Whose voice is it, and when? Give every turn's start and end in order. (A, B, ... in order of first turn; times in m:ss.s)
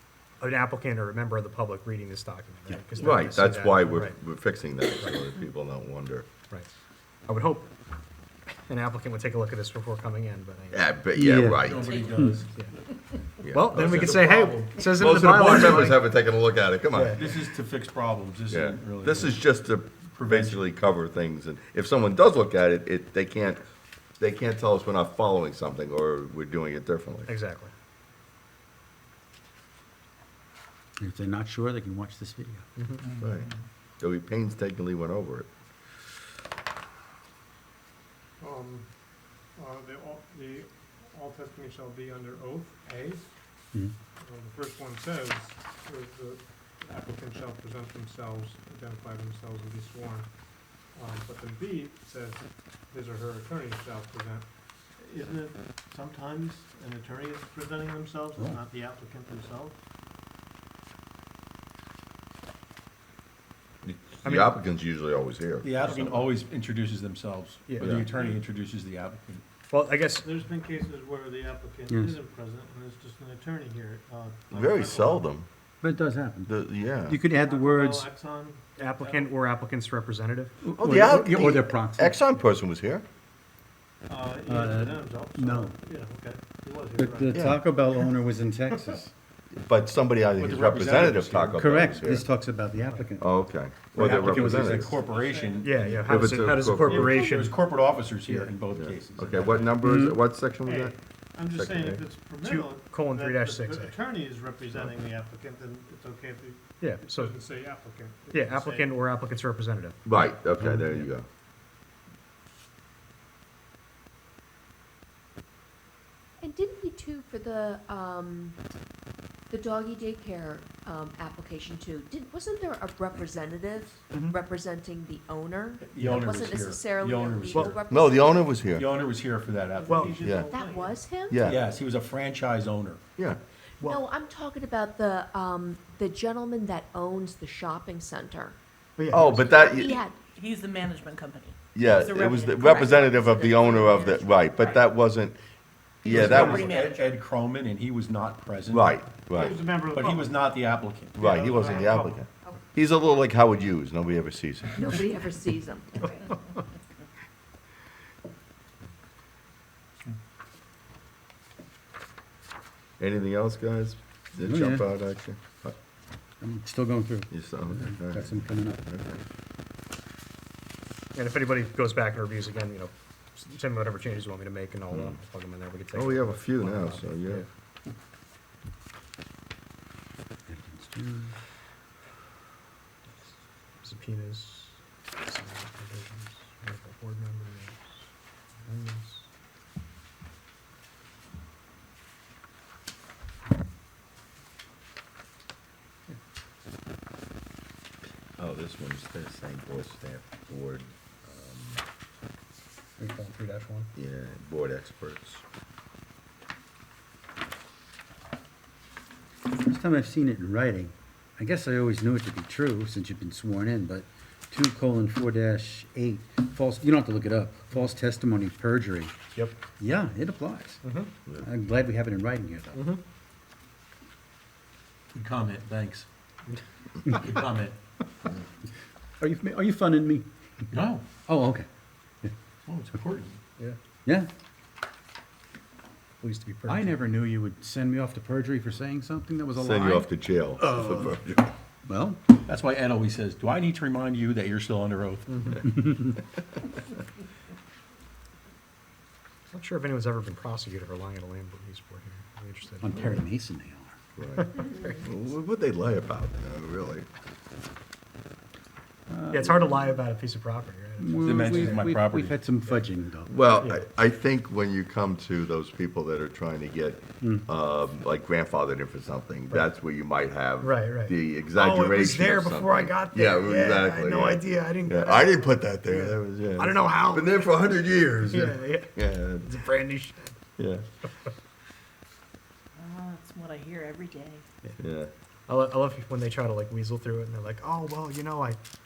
0:00.4-0:04.1 A
0:03.0-0:06.3 B
0:07.3-0:07.7 A
0:08.7-0:10.8 A
0:10.7-0:12.0 B
0:11.2-0:11.6 C
0:11.6-0:12.8 D
0:11.7-0:12.4 E
0:13.4-0:14.2 B
0:13.4-0:16.0 A
0:13.6-0:16.0 D
0:15.1-0:17.2 B
0:16.9-0:17.3 A
0:17.1-0:19.4 D
0:18.5-0:23.6 B
0:20.2-0:20.7 D
0:24.2-0:27.3 B
0:27.3-0:27.7 A
0:31.0-0:32.6 C
0:32.8-0:33.1 A
0:33.1-0:35.5 B
0:38.4-0:38.9 F
0:39.6-0:43.2 F
0:44.2-0:50.3 F
0:50.9-0:54.4 F
0:55.0-0:59.8 G
1:03.8-1:06.2 B
1:04.2-1:04.6 A
1:05.6-1:09.4 D
1:07.7-1:08.2 A
1:08.1-1:08.4 G
1:09.7-1:10.3 A
1:10.2-1:15.2 G
1:11.9-1:12.2 C
1:14.5-1:15.5 B
1:15.8-1:16.5 C
1:16.5-1:17.2 B
1:17.1-1:18.1 C
1:17.3-1:19.4 G
1:18.8-1:20.5 A
1:20.6-1:22.2 C
1:20.8-1:23.0 B
1:24.1-1:27.4 G
1:24.5-1:25.7 C
1:27.0-1:29.1 C
1:27.3-1:27.6 B
1:29.6-1:32.3 B
1:30.4-1:32.1 D
1:31.5-1:33.3 C
1:33.2-1:35.0 B
1:34.0-1:39.7 D
1:34.0-1:34.8 A
1:34.9-1:35.7 G
1:35.6-1:37.6 A
1:36.0-1:37.3 B
1:38.7-1:40.9 B
1:39.8-1:40.2 C
1:40.6-1:46.6 G
1:41.5-1:42.0 B
1:42.4-1:44.0 A
1:46.8-1:47.3 A
1:47.0-1:48.4 F
1:48.3-1:50.0 A
1:48.4-1:49.0 G
1:50.0-1:51.2 B
1:50.6-1:51.1 A
1:56.4-1:58.6 H
1:59.5-2:08.6 H
2:05.8-2:07.8 D
2:07.9-2:08.9 B
2:08.7-2:10.5 D
2:09.8-2:10.2 A
2:10.0-2:11.0 G
2:10.2-2:10.5 B
2:10.5-2:11.4 H
2:11.3-2:11.6 B
2:11.3-2:13.0 D
2:13.8-2:18.6 H
2:19.0-2:19.6 A
2:19.1-2:20.0 B
2:19.4-2:20.2 H
2:19.9-2:24.8 E
2:21.7-2:25.4 B
2:26.0-2:26.7 B
2:26.0-2:29.0 D
2:26.3-2:27.1 E
2:28.7-2:29.6 B
2:29.3-2:30.4 G
2:29.6-2:31.3 D
2:31.2-2:35.0 B
2:31.2-2:32.2 G
2:34.7-2:36.3 H
2:43.0-2:45.7 B
2:44.4-2:44.8 C
2:46.4-2:48.8 C
2:47.3-2:49.1 B
2:51.1-2:57.5 A
2:54.9-2:55.2 B
2:55.9-2:57.4 B
3:00.5-3:01.4 C
3:03.8-3:07.9 A
3:08.6-3:09.2 A
3:18.4-3:21.8 B
3:23.0-3:23.9 A
3:24.0-3:25.4 B
3:29.6-3:39.1 C
3:39.7-3:40.8 C
3:40.8-3:41.1 A
3:41.4-3:42.8 C
3:42.7-3:43.0 A
3:45.1-3:46.1 D
3:47.1-3:47.8 D
3:49.2-3:50.3 C
3:50.7-3:51.0 D
3:51.2-3:51.7 C
3:52.7-3:53.4 D
3:56.2-3:57.0 A
3:56.7-4:00.1 C
3:59.6-4:01.5 B
4:00.6-4:01.2 C
4:01.8-4:02.2 C
4:02.5-4:05.3 D
4:05.3-4:05.6 A
4:05.6-4:06.1 C
4:09.5-4:13.2 A
4:12.8-4:14.0 C
4:14.2-4:17.1 B
4:14.4-4:14.9 A
4:19.1-4:20.0 C
4:19.3-4:21.8 A
4:21.0-4:23.3 C
4:21.2-4:22.4 D
4:23.3-4:39.5 B
4:27.2-4:27.5 C
4:30.6-4:37.7 A
4:38.3-4:40.3 A
4:40.6-4:40.8 B
4:42.8-4:44.4 E
4:44.8-4:45.1 B
4:45.5-4:48.6 A